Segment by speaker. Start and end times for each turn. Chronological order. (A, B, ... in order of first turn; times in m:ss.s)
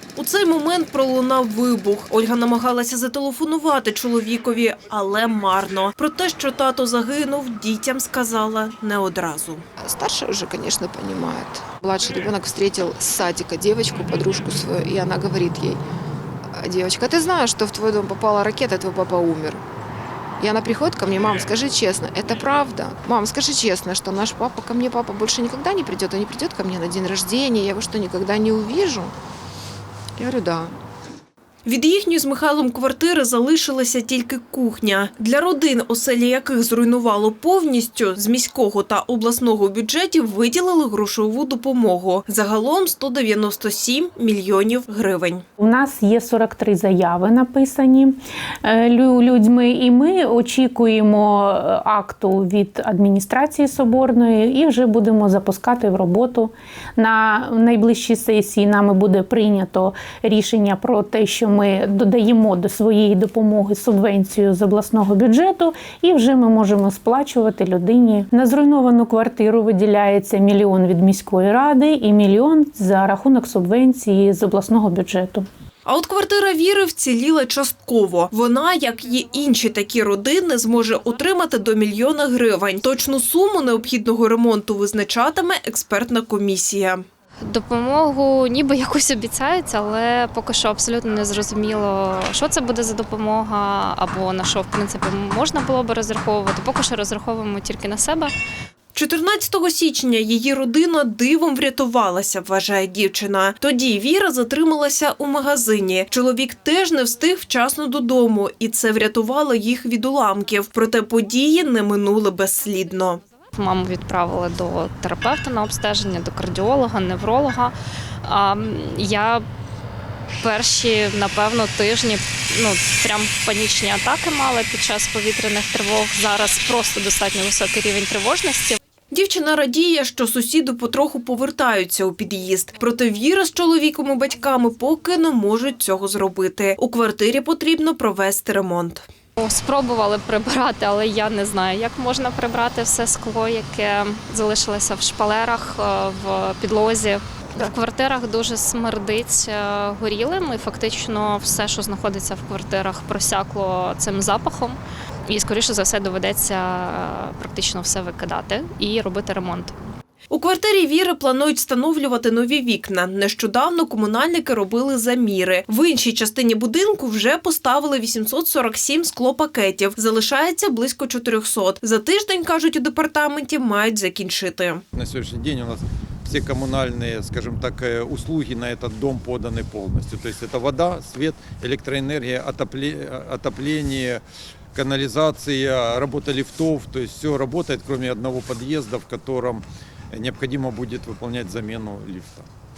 0:00.1-0:09.6 A
0:09.8-0:15.8 B
0:16.5-0:19.6 B
0:20.4-0:29.1 B
0:30.2-0:30.7 B
0:31.6-0:45.4 A
0:45.6-1:15.5 C
1:15.8-1:27.0 A
1:27.4-1:38.3 D
1:38.9-1:53.2 A
1:53.6-1:59.4 D
2:00.4-2:08.8 D
2:09.1-2:19.0 A
2:19.4-2:39.7 D
2:40.3-2:54.8 A
2:54.9-3:04.2 E
3:04.7-3:12.5 E